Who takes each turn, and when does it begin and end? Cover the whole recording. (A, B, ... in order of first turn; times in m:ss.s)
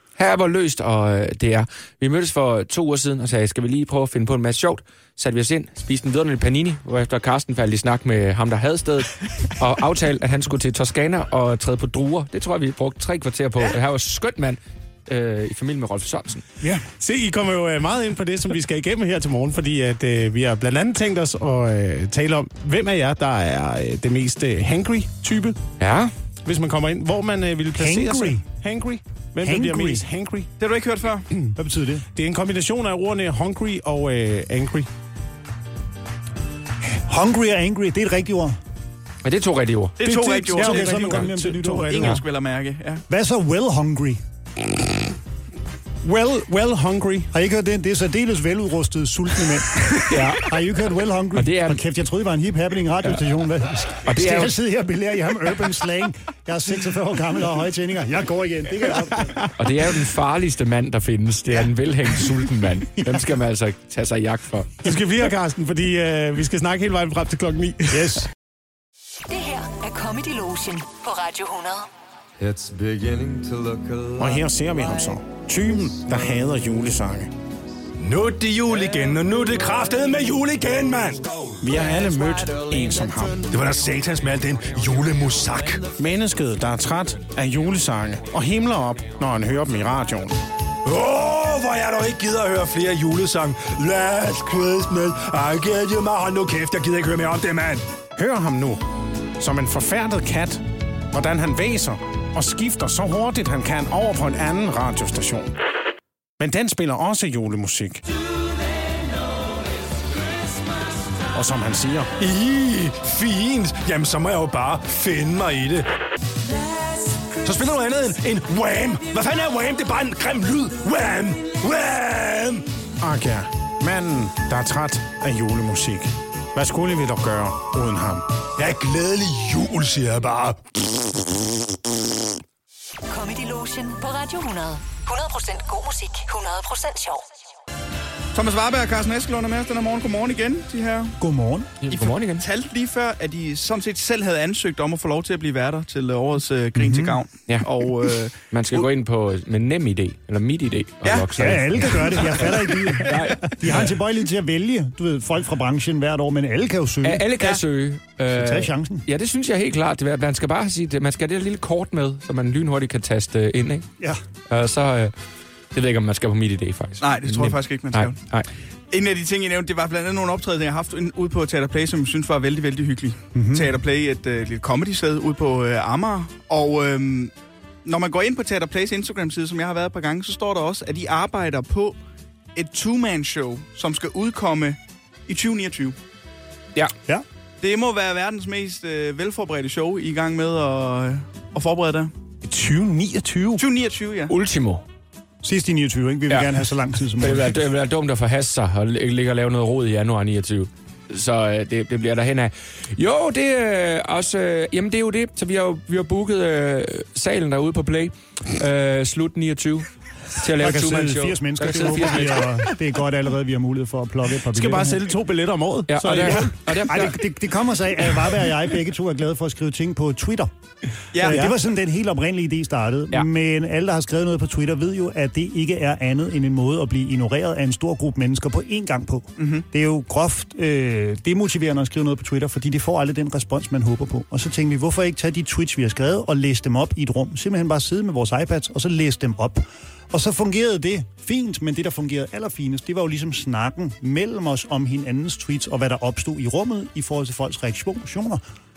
0:00.2-0:16.4 A
0:16.6-0:25.6 B
0:25.8-0:26.1 A
0:26.4-0:30.5 B
0:27.8-0:28.4 C
0:29.4-0:30.0 C
0:30.6-0:31.3 D
0:31.6-0:32.0 C
0:32.1-0:34.9 B
0:36.9-0:38.6 C
0:39.2-0:40.0 A
0:40.0-0:41.2 D
0:40.0-0:42.2 C
0:40.6-0:42.2 B
0:41.8-0:43.0 D
0:43.1-0:44.2 C
0:46.0-0:47.3 B
0:47.3-0:59.4 C
0:50.0-0:50.5 A
0:51.3-0:51.8 A
0:54.0-0:54.5 A
0:59.6-1:04.8 A
1:04.8-1:08.3 B
1:07.9-1:08.3 C
1:09.3-1:11.9 E
1:12.4-1:16.2 F
1:14.2-1:17.3 B
1:18.0-1:21.2 G
1:21.6-1:23.4 F
1:21.6-1:23.4 B
1:23.5-1:25.8 G
1:26.0-1:30.4 B
1:30.8-1:37.8 G
1:38.2-1:45.5 B
1:46.4-1:48.0 B
1:51.3-1:52.1 B
1:52.2-1:55.9 G
1:57.4-2:02.7 G
2:03.0-2:08.3 B
2:08.6-2:10.8 G
2:13.1-2:17.2 E
2:18.3-2:21.2 D
2:21.2-2:21.8 C
2:21.8-2:22.4 A
2:21.9-2:28.8 D
2:26.8-2:27.2 C
2:28.5-2:33.9 A
2:31.0-2:31.6 D
2:31.4-2:37.3 C
2:37.0-2:43.9 A
2:38.3-2:39.0 C
2:44.5-2:45.1 A
2:45.7-2:48.5 A
2:47.0-2:48.2 D
2:48.9-2:57.3 D
2:53.3-2:53.8 C
2:57.8-3:02.0 D
3:02.5-3:06.0 D
3:07.6-3:12.1 D
3:12.4-3:13.6 B
3:13.6-3:14.3 D
3:14.3-3:14.8 A
3:15.4-3:17.6 C
3:17.2-3:32.4 A
3:30.6-3:35.0 C
3:34.5-3:36.9 B
3:35.9-3:37.2 A
3:36.1-3:40.5 C
3:41.1-3:41.5 D
3:41.2-4:08.4 C
3:41.2-3:41.5 B
3:49.4-3:49.6 D